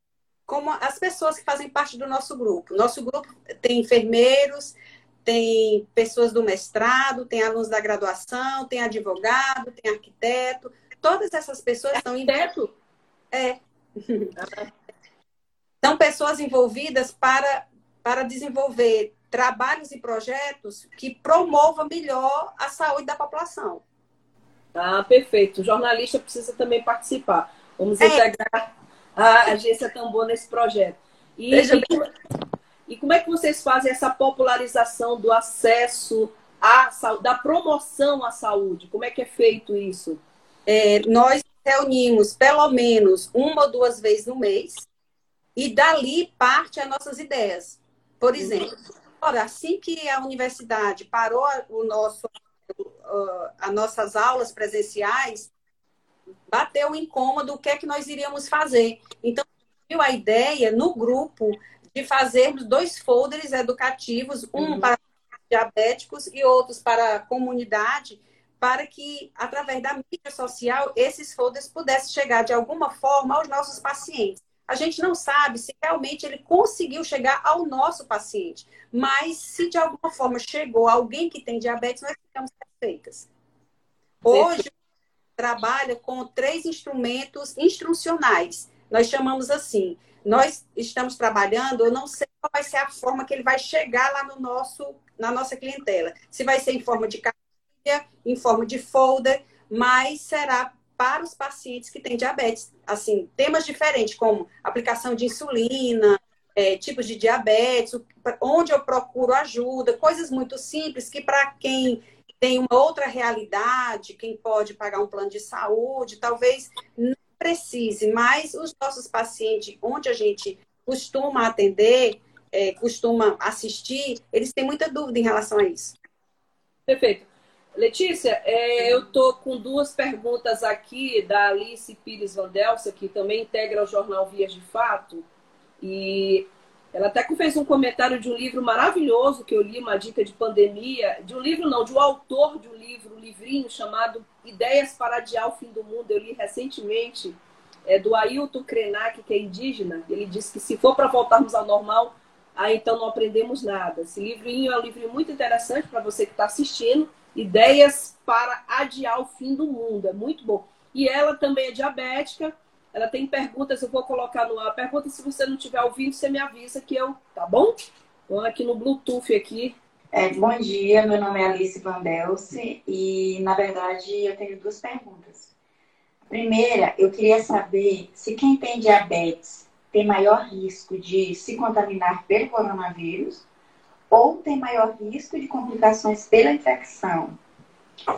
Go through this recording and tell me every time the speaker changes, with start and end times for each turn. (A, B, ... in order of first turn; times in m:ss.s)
0:00.5-0:12.5 A
0:12.2-0:12.7 B
0:13.3-0:14.3 A
0:14.4-0:14.7 B
0:15.8-0:23.8 A
0:24.7-0:32.1 B
0:28.0-0:28.3 A
0:31.5-0:32.0 A
0:32.9-0:40.2 B
0:40.7-0:44.9 A
0:45.6-0:55.5 A
0:48.4-0:48.7 B
0:56.5-1:23.3 A
1:04.6-1:04.8 B
1:24.2-1:24.7 A
1:24.3-1:24.6 B
1:25.4-2:06.0 A
2:06.9-2:15.2 B
2:15.8-2:47.8 B
2:48.3-2:49.7 B
2:50.1-2:55.5 C
2:56.3-3:03.4 C
3:04.1-3:07.4 C